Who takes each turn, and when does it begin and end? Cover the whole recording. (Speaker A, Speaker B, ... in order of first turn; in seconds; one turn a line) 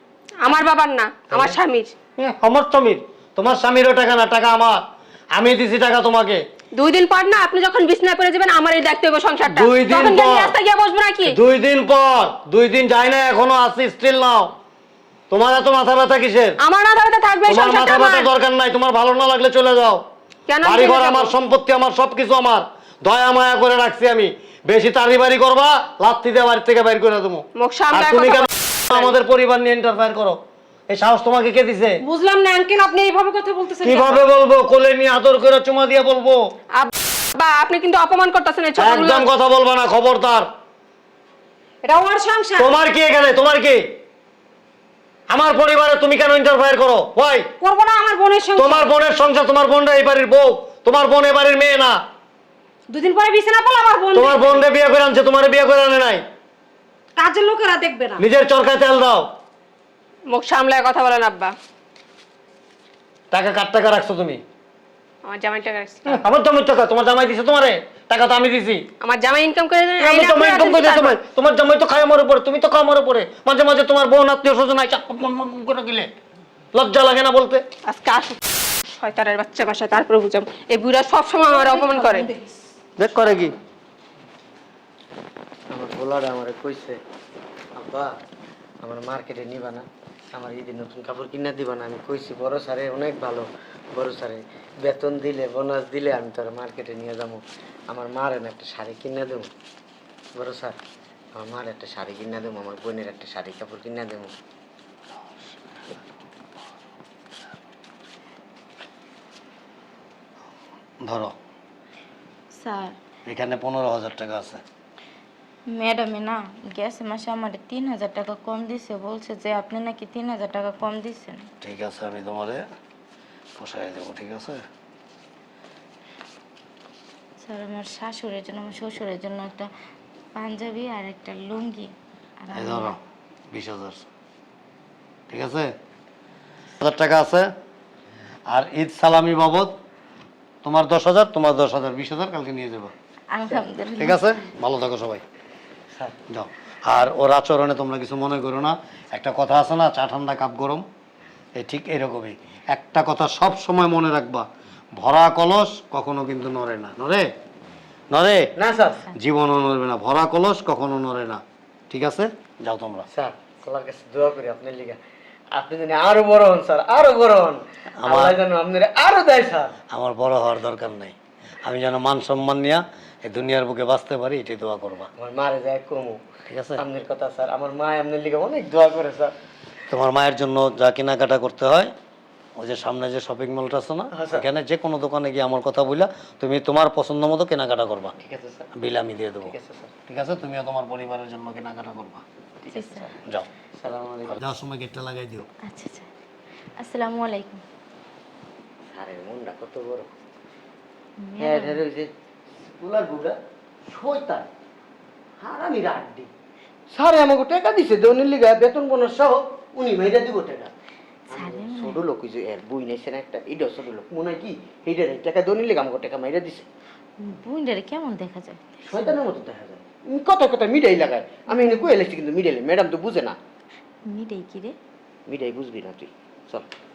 Speaker A: 0.4-1.9
Speaker B: 1.3-1.6
Speaker B: 2.2-4.8
Speaker B: 5.3-6.4
Speaker A: 6.8-11.4
Speaker B: 9.4-10.6
Speaker B: 11.2-14.5
Speaker B: 15.3-16.6
Speaker A: 16.6-18.3
Speaker B: 17.5-20.1
Speaker A: 20.5-21.4
Speaker B: 20.6-32.0
Speaker A: 27.6-29.1
Speaker C: 32.0-34.3
Speaker B: 33.8-36.4
Speaker A: 36.8-39.3
Speaker B: 38.8-40.5
Speaker C: 41.8-42.8
Speaker B: 42.6-43.8
Speaker B: 45.3-47.5
Speaker C: 47.6-48.9
Speaker B: 48.6-52.0
Speaker C: 52.9-54.7
Speaker B: 54.1-56.2
Speaker C: 57.2-58.2
Speaker B: 58.2-59.3
Speaker A: 60.3-61.5
Speaker B: 63.3-64.4
Speaker A: 65.2-66.2
Speaker B: 66.1-68.8
Speaker A: 69.0-71.2
Speaker B: 70.0-76.1
Speaker B: 76.7-77.6
Speaker A: 77.9-82.3
Speaker C: 81.4-82.6
Speaker B: 83.0-83.6
Speaker D: 85.7-87.0
Speaker D: 87.8-88.1
Speaker D: 88.8-99.5
Speaker D: 100.3-100.8
Speaker D: 101.4-104.3
Speaker B: 111.0-111.3
Speaker E: 112.5-113.0
Speaker B: 113.3-114.6
Speaker E: 115.7-121.5
Speaker B: 121.6-122.6
Speaker B: 123.6-124.6
Speaker E: 127.4-129.7
Speaker E: 130.3-133.0
Speaker B: 132.6-133.0
Speaker B: 133.5-134.1
Speaker B: 135.3-135.7
Speaker B: 136.8-137.5
Speaker B: 138.5-139.7
Speaker B: 140.6-142.9
Speaker E: 143.3-144.3
Speaker B: 144.0-145.2
Speaker B: 146.3-150.8
Speaker B: 151.6-157.3
Speaker B: 158.1-158.5
Speaker D: 158.6-159.1
Speaker B: 159.1-163.1
Speaker D: 163.1-165.0
Speaker D: 165.5-169.7
Speaker B: 168.0-168.4
Speaker B: 169.9-175.1
Speaker D: 175.2-176.2
Speaker B: 176.5-176.8
Speaker D: 176.8-179.3
Speaker B: 179.9-181.9
Speaker B: 182.6-188.1
Speaker D: 184.1-184.5
Speaker D: 188.2-188.7
Speaker B: 188.8-189.5
Speaker D: 189.4-189.9
Speaker B: 190.1-192.2
Speaker D: 192.6-193.1
Speaker E: 192.7-193.1
Speaker D: 193.8-194.4
Speaker B: 194.3-195.5
Speaker E: 195.7-196.1
Speaker E: 196.8-197.6
Speaker D: 198.9-200.1
Speaker E: 201.2-201.8
Speaker D: 201.4-202.1
Speaker D: 202.6-203.4
Speaker D: 203.9-204.5
Speaker D: 205.4-206.3
Speaker D: 206.9-210.7
Speaker E: 211.3-212.0
Speaker D: 211.3-216.7
Speaker E: 217.2-219.2
Speaker D: 218.9-223.4
Speaker E: 224.1-224.8
Speaker D: 225.3-226.7